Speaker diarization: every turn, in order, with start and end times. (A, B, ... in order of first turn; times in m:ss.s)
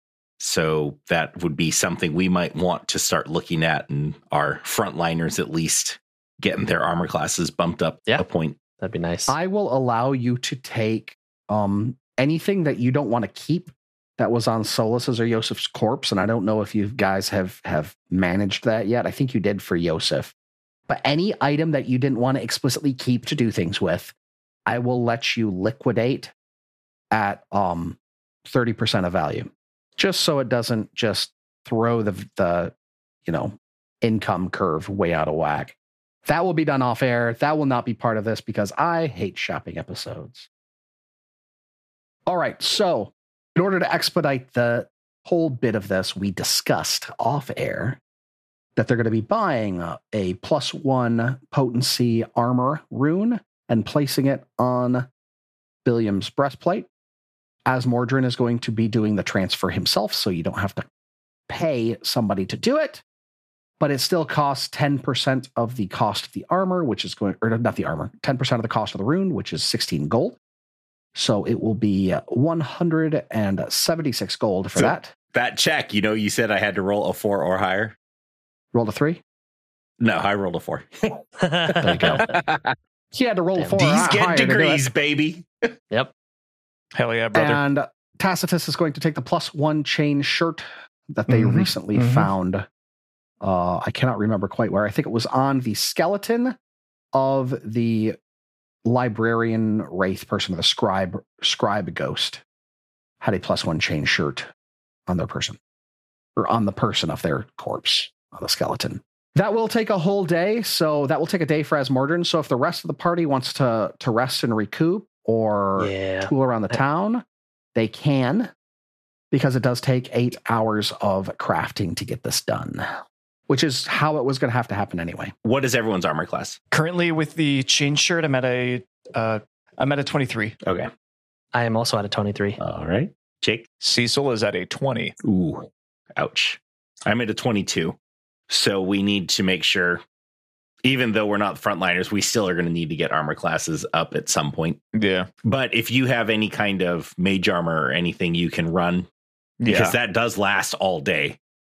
0:00.4-0:08.6 A
0:08.8-0:09.3 B
0:09.3-0:20.3 C
0:20.9-0:24.1 C
0:24.7-0:26.3 C
0:27.1-0:32.7 C
0:33.2-0:40.5 C
0:42.3-0:48.0 C
0:48.8-0:55.1 C
0:55.8-0:56.9 C
0:57.6-1:00.8 C
1:01.5-1:03.0 C
1:03.8-1:10.4 C
1:11.1-1:15.1 C
1:14.8-1:17.9 A
1:18.7-1:19.2 C
1:20.0-1:22.7 A
1:21.4-1:22.2 B
1:21.8-1:22.2 C
1:23.1-1:24.8 C
1:23.7-1:25.7 A
1:26.9-1:27.6 D
1:27.3-1:32.6 C
1:31.3-1:32.3 E
1:33.4-1:36.6 C
1:37.1-1:38.2 C
1:38.8-1:42.4 C
1:43.2-1:44.5 C
1:45.1-1:45.6 C
1:46.4-1:57.2 C
1:55.8-1:56.8 B
1:57.7-1:58.5 C
1:59.3-2:02.8 C
2:03.5-2:05.3 C
2:05.4-2:06.6 A
2:06.7-2:10.5 E
2:10.6-2:10.9 A
2:11.5-2:12.6 B
2:12.6-2:13.6 A
2:13.8-2:15.2 D
2:15.2-2:18.0 A
2:18.5-2:20.0 A
2:20.8-2:24.8 A
2:24.9-2:25.3 D
2:25.4-2:29.1 A
2:29.6-2:30.0 D
2:29.7-2:31.4 A